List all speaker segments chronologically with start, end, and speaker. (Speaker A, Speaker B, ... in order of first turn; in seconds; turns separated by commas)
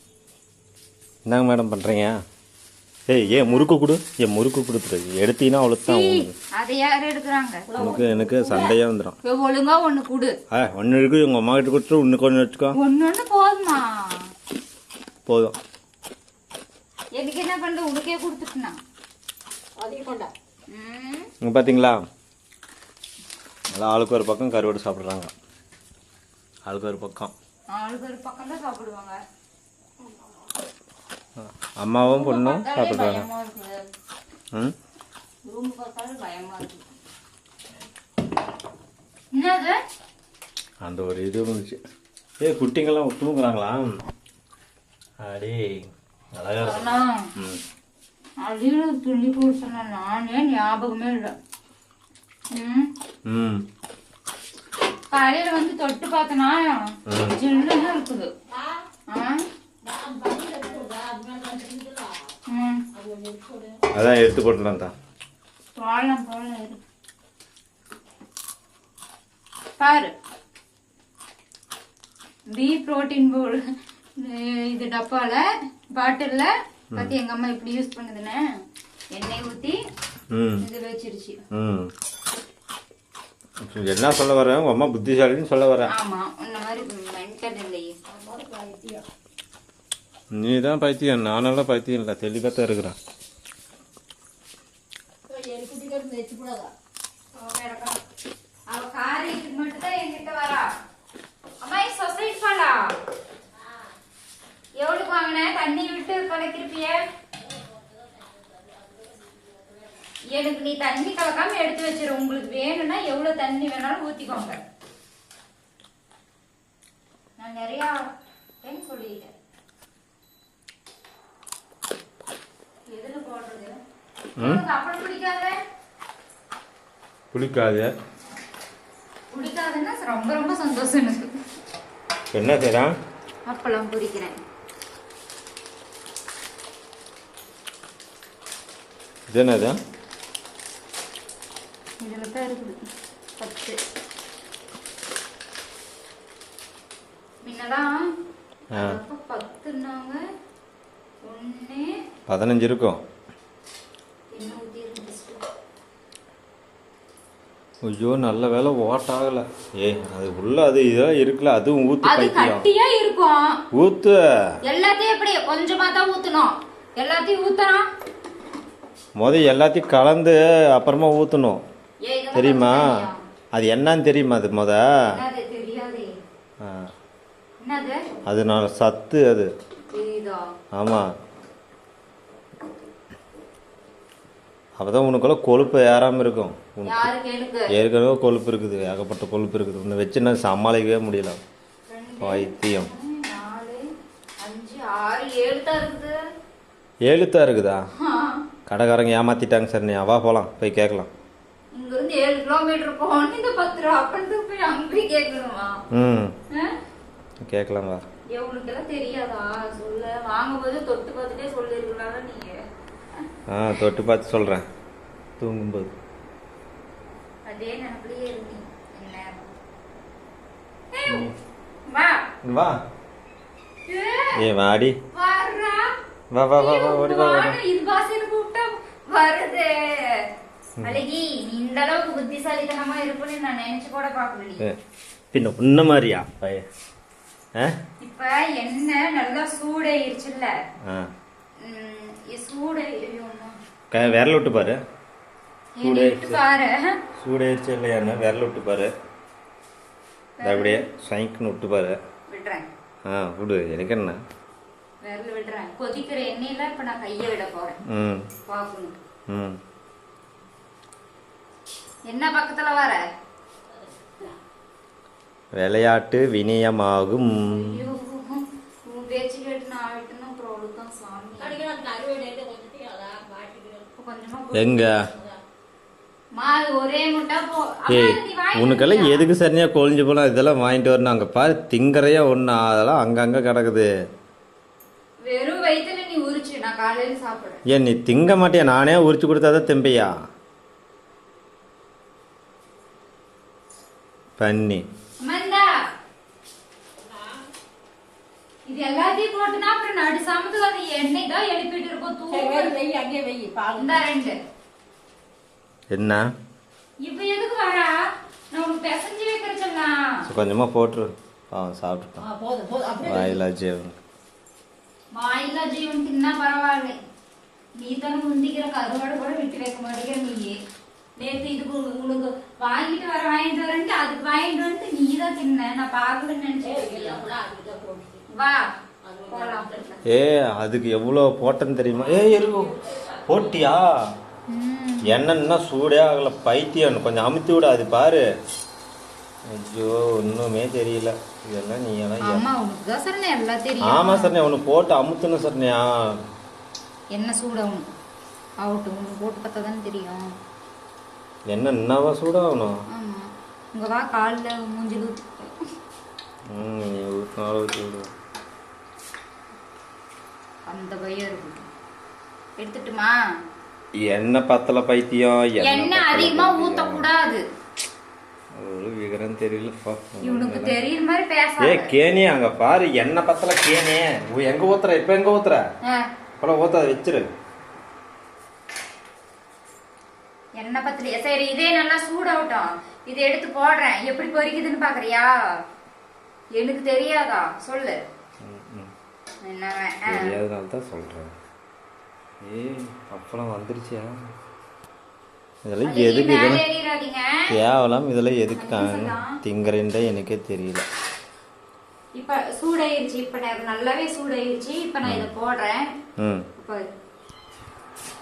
Speaker A: 1.2-2.1, Speaker A: 3.1-6.3, Speaker B: 3.3-3.7, Speaker B: 5.9-7.7, Speaker C: 7.7-8.8, Speaker A: 7.7-9.2, Speaker B: 9.2-10.3, Speaker A: 10.5-12.8, Speaker B: 12.7-14.3, Speaker A: 15.2-15.6, Speaker B: 17.2-18.8, Speaker C: 19.8-20.3, Speaker B: 20.7-21.3, Speaker A: 21.4-22.0, Speaker A: 23.7-25.3, Speaker A: 26.7-27.3, Speaker B: 27.7-29.2, Speaker A: 31.4-33.3, Speaker B: 32.0-33.8, Speaker B: 35.5-36.9, Speaker B: 39.3-39.8, Speaker A: 40.8-41.8, Speaker A: 42.4-44.0, Speaker A: 45.2-45.8, Speaker A: 46.3-47.6, Speaker B: 46.6-47.3, Speaker B: 48.4-51.4, Speaker B: 52.5-52.9, Speaker A: 53.3-53.6, Speaker B: 55.1-58.3, Speaker A: 57.1-57.4, Speaker C: 57.5-58.7, Speaker B: 59.1-59.4, Speaker C: 59.8-62.3, Speaker B: 62.5-62.9, Speaker C: 62.9-63.8, Speaker A: 63.9-64.9, Speaker B: 65.8-66.8, Speaker B: 69.8-70.1, Speaker B: 72.5-73.6, Speaker B: 74.2-75.4, Speaker B: 75.9-78.4, Speaker B: 79.1-79.8, Speaker A: 80.3-80.7, Speaker B: 80.6-81.4, Speaker A: 81.5-81.9, Speaker A: 83.7-85.9, Speaker B: 85.9-87.9, Speaker C: 88.0-89.1, Speaker A: 90.4-93.0, Speaker C: 95.3-96.7, Speaker B: 97.3-98.0, Speaker B: 98.7-100.6, Speaker B: 101.6-102.8, Speaker B: 104.8-107.1, Speaker C: 107.9-110.0, Speaker B: 110.3-114.6, Speaker B: 117.4-119.3, Speaker B: 122.9-123.8, Speaker A: 124.4-124.6, Speaker B: 124.4-125.5, Speaker A: 127.3-127.9, Speaker B: 129.3-131.3, Speaker A: 132.3-132.9, Speaker B: 133.4-134.3, Speaker A: 139.3-139.8, Speaker B: 142.0-142.7, Speaker B: 143.4-143.8, Speaker B: 147.4-147.9, Speaker A: 148.7-149.0, Speaker B: 148.7-150.2, Speaker B: 151.2-151.9, Speaker A: 152.3-153.0, Speaker B: 154.3-155.4, Speaker A: 157.9-162.7, Speaker B: 162.0-163.6, Speaker A: 163.7-164.2, Speaker B: 164.6-167.9, Speaker A: 169.2-171.6, Speaker B: 172.0-173.2, Speaker A: 172.3-173.0, Speaker A: 173.5-174.8, Speaker B: 175.1-176.1, Speaker A: 176.6-176.9, Speaker B: 177.6-178.0, Speaker A: 178.2-179.5, Speaker B: 179.9-180.4, Speaker A: 180.7-181.1, Speaker A: 184.8-187.1, Speaker B: 186.8-187.7, Speaker A: 187.7-191.4, Speaker B: 191.9-193.8, Speaker A: 192.2-192.9, Speaker B: 194.4-196.2, Speaker A: 197.1-197.8, Speaker B: 198.0-198.4, Speaker A: 198.7-201.1, Speaker B: 201.7-205.8, Speaker A: 205.9-206.3, Speaker A: 207.4-208.0, Speaker B: 208.3-212.6, Speaker A: 213.5-214.7, Speaker A: 215.4-215.9, Speaker B: 217.4-219.4, Speaker B: 220.9-221.3, Speaker A: 221.1-221.3, Speaker B: 221.9-222.2, Speaker A: 222.4-222.8, Speaker B: 223.8-224.4, Speaker A: 224.3-224.9, Speaker B: 225.1-225.8, Speaker A: 226.3-227.6, Speaker B: 226.5-230.2, Speaker B: 230.8-234.6, Speaker A: 235.3-236.6, Speaker B: 238.0-240.5, Speaker B: 241.6-243.5, Speaker A: 243.9-244.8, Speaker B: 245.8-247.0, Speaker A: 245.8-246.4, Speaker A: 247.2-248.9, Speaker B: 250.4-250.8, Speaker A: 250.4-252.0, Speaker B: 252.3-252.7, Speaker A: 253.1-254.2, Speaker B: 255.0-257.8, Speaker A: 257.9-258.2, Speaker B: 258.5-258.9, Speaker A: 259.3-259.6, Speaker B: 262.1-263.0, Speaker C: 263.7-264.4, Speaker A: 265.6-267.8, Speaker B: 267.5-271.6, Speaker C: 271.4-273.9, Speaker B: 274.0-274.8, Speaker A: 274.5-274.9, Speaker B: 276.4-279.3, Speaker A: 277.9-283.9, Speaker B: 285.2-287.6, Speaker A: 287.7-290.1, Speaker A: 294.4-294.8, Speaker B: 295.2-295.7, Speaker B: 298.6-302.8, Speaker C: 302.3-304.1, Speaker B: 303.8-304.4, Speaker A: 305.9-306.2, Speaker B: 307.0-307.9, Speaker B: 308.5-310.1, Speaker A: 310.2-312.2, Speaker C: 312.2-313.4, Speaker A: 313.0-314.0, Speaker B: 315.1-317.0, Speaker B: 317.8-320.6, Speaker B: 321.2-327.3, Speaker C: 326.6-328.2, Speaker B: 328.3-328.6, Speaker C: 329.1-330.0, Speaker B: 329.3-329.9, Speaker A: 330.1-333.9, Speaker C: 332.0-333.7, Speaker B: 334.5-335.2, Speaker A: 335.1-338.2, Speaker A: 339.5-342.4, Speaker B: 342.2-344.4, Speaker A: 343.8-346.1, Speaker B: 347.1-347.9, Speaker B: 348.6-350.2, Speaker A: 351.5-352.8, Speaker B: 352.9-355.5, Speaker A: 356.5-358.1, Speaker B: 360.7-361.6, Speaker B: 362.6-363.1, Speaker A: 364.1-367.1, Speaker B: 365.6-367.4, Speaker A: 368.5-370.8, Speaker B: 370.2-371.9, Speaker A: 371.6-375.6, Speaker A: 376.4-377.3, Speaker B: 380.6-385.3, Speaker B: 386.6-388.0, Speaker A: 388.4-388.9, Speaker B: 389.4-390.3, Speaker A: 390.1-391.4, Speaker A: 392.4-394.1, Speaker A: 395.6-396.6, Speaker B: 395.8-397.5, Speaker A: 397.5-400.8, Speaker B: 398.5-399.3, Speaker B: 402.2-405.9, Speaker A: 405.0-405.3, Speaker A: 406.2-406.5, Speaker B: 406.6-406.9